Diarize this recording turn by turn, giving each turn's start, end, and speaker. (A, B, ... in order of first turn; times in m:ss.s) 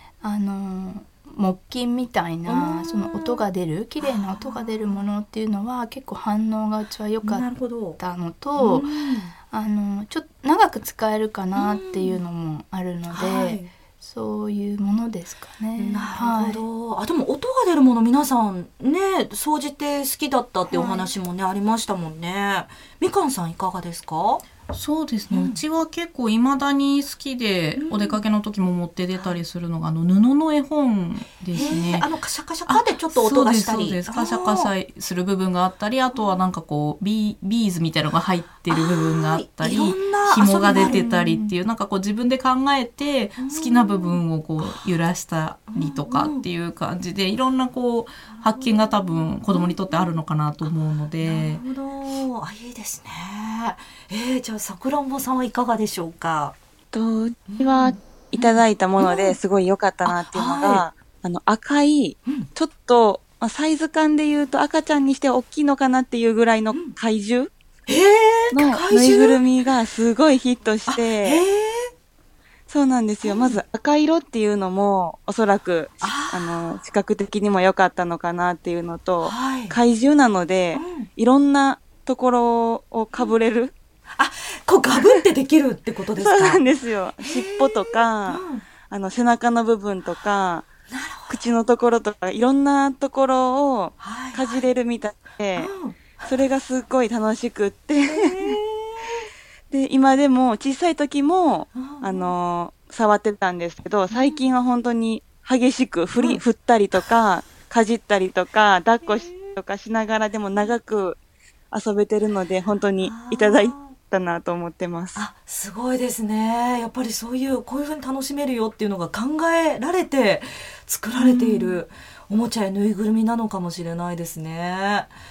0:00.2-0:07.4 A
0:02.4-0:03.4 B
0:04.0-0:05.1 B
0:07.2-0:08.0 B
0:08.0-0:08.9 A
0:08.6-0:09.3 B
0:09.5-0:16.6 A
0:11.5-0:12.2 B
0:13.1-0:13.7 B
0:15.8-0:24.4 B
0:20.7-0:21.1 A
0:24.7-0:32.1 C
0:25.3-0:25.6 B
0:27.8-0:28.2 B
0:29.1-0:29.4 B
0:31.5-0:34.7 B
0:32.7-0:51.6 C
0:36.1-0:36.4 B
0:38.7-0:41.3 B
0:40.9-0:41.4 A
0:43.4-0:44.9 B
0:45.7-0:46.4 B
0:48.3-0:50.1 B
0:51.2-0:56.5 B
0:56.9-1:07.5 D
0:57.5-0:59.4 B
1:00.0-1:00.8 B
1:07.9-1:09.4 B
1:08.5-1:11.4 D
1:10.9-1:11.9 B
1:12.7-1:23.7 D
1:13.2-1:13.6 B
1:16.0-1:16.7 B
1:19.2-1:19.8 B
1:20.7-1:21.1 B
1:24.2-1:26.6 B
1:26.2-1:30.7 D
1:27.2-1:28.6 B
1:30.9-1:31.5 B
1:31.3-1:38.6 D
1:34.0-1:34.7 B
1:35.6-1:36.2 B
1:38.1-1:39.2 B
1:39.7-1:51.2 D
1:41.8-1:42.3 B
1:44.1-1:44.4 B
1:49.0-1:49.5 B
1:51.7-1:55.2 D
1:53.0-1:53.9 B
1:55.2-2:05.1 B
2:01.3-2:01.8 A